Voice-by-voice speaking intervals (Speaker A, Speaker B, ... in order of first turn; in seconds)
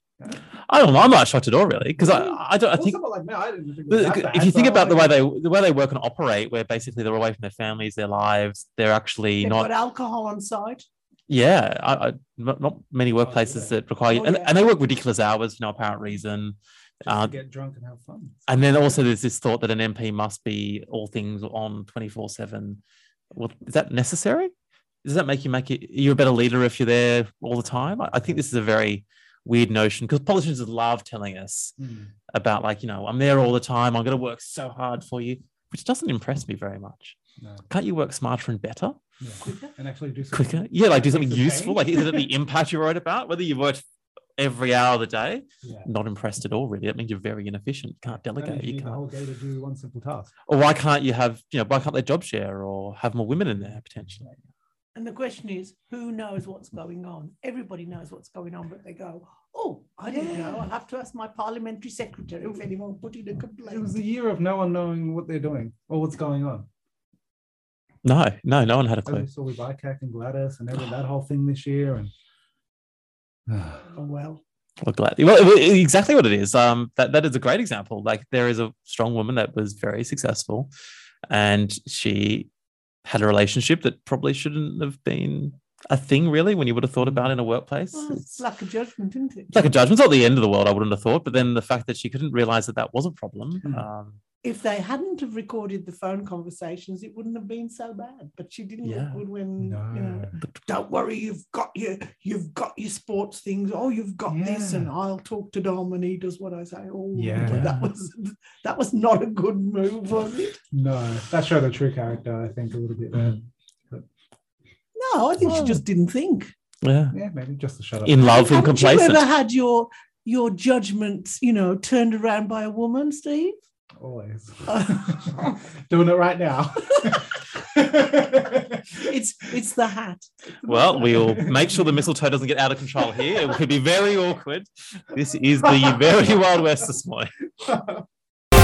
Speaker A: 0.7-3.0, 3.9-9.7, 11.3-17.3, 18.5-22.8, 23.3-24.5, 25.0-31.7, 32.3-37.2, 37.7-39.0, 40.3-43.8, 44.4-49.0, 50.5-54.2, 68.0-69.2, 74.8-80.7, 81.3-82.5, 83.0-88.4, 89.5-94.2, 98.8-99.2, 100.4-100.7, 107.5-107.9, 115.4-115.8, 116.8-117.2, 118.0-119.2, 130.6-137.3
Speaker B: 1.9-5.2, 13.2-13.8, 17.1-18.4, 27.9-28.4, 31.8-32.1, 37.4-37.6, 39.2-42.3, 45.6-45.9, 48.3-50.3, 60.1-60.7, 63.6-66.7, 69.0-72.1, 73.5-73.8, 87.0-87.3, 99.6-100.4, 104.3-104.9, 107.1-107.8, 110.7-114.0, 115.5-115.7, 117.1-118.5, 124.0-129.1, 130.6-132.1, 137.6-138.0
Speaker C: 9.4-10.8, 14.1-14.5, 39.4-39.7, 54.9-63.9, 73.9-74.4, 87.9-89.7, 94.4-110.6, 114.9-116.5, 118.2-123.5, 124.7-125.5, 129.0-130.3